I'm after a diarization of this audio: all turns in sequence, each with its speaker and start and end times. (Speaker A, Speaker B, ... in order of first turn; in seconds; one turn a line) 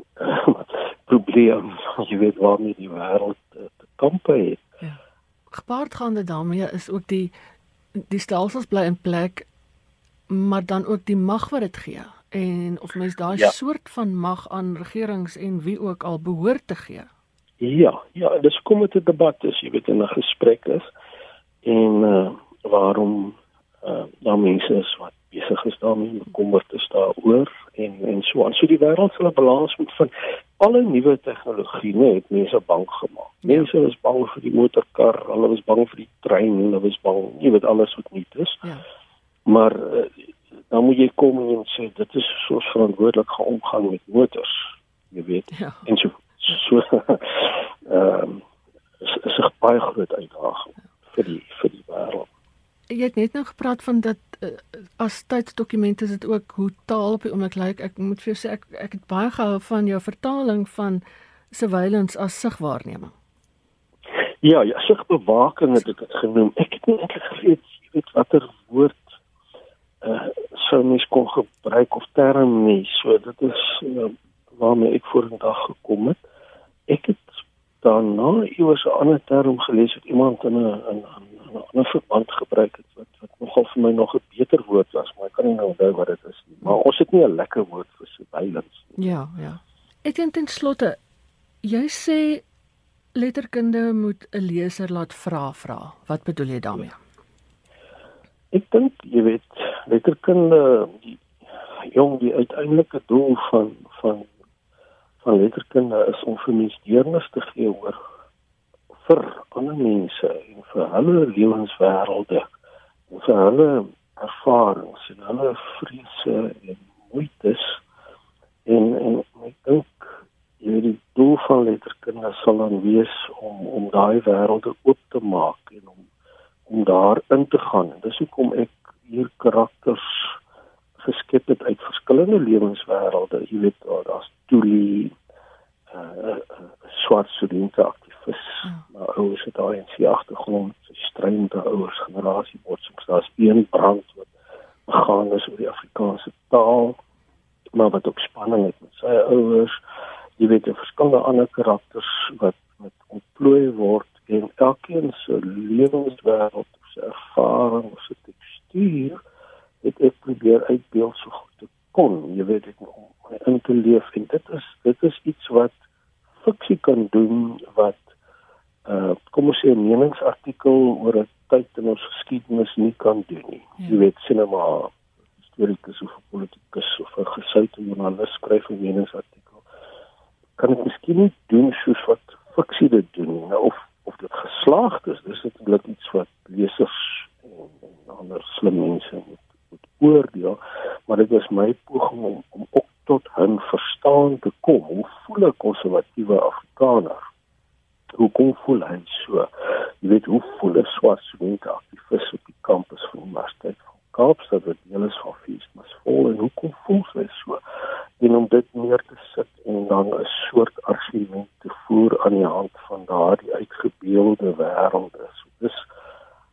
Speaker A: 0.2-4.7
Speaker B: 5.5-7.3
Speaker B: 8.1-9.5
Speaker B: 10.3-17.1
Speaker A: 17.6-20.9
Speaker A: 21.6-38.6
Speaker B: 33.4-33.7
Speaker A: 39.5-40.1
Speaker A: 40.7-48.4
Speaker B: 45.5-45.9
Speaker A: 49.0-52.3
Speaker B: 52.9-63.1
Speaker A: 64.4-69.1
Speaker A: 70.0-76.2
Speaker A: 76.9-77.3
Speaker A: 77.8-89.1
Speaker B: 89.0-91.0
Speaker B: 91.6-92.4
Speaker B: 93.2-97.0
Speaker A: 98.5-101.2
Speaker A: 101.8-104.3
Speaker A: 105.2-108.0
Speaker A: 108.9-112.5
Speaker A: 113.1-117.8
Speaker A: 118.7-126.0
Speaker A: 126.7-130.3
Speaker A: 131.0-135.1
Speaker A: 135.9-144.3
Speaker A: 144.9-147.0
Speaker A: 147.7-149.8
Speaker A: 150.4-159.2
Speaker A: 159.8-165.7
Speaker A: 166.4-168.0
Speaker A: 168.9-174.9
Speaker A: 175.5-179.6
Speaker A: 180.6-197.2
Speaker A: 198.2-199.5
Speaker A: 200.0-207.6
Speaker A: 208.2-215.8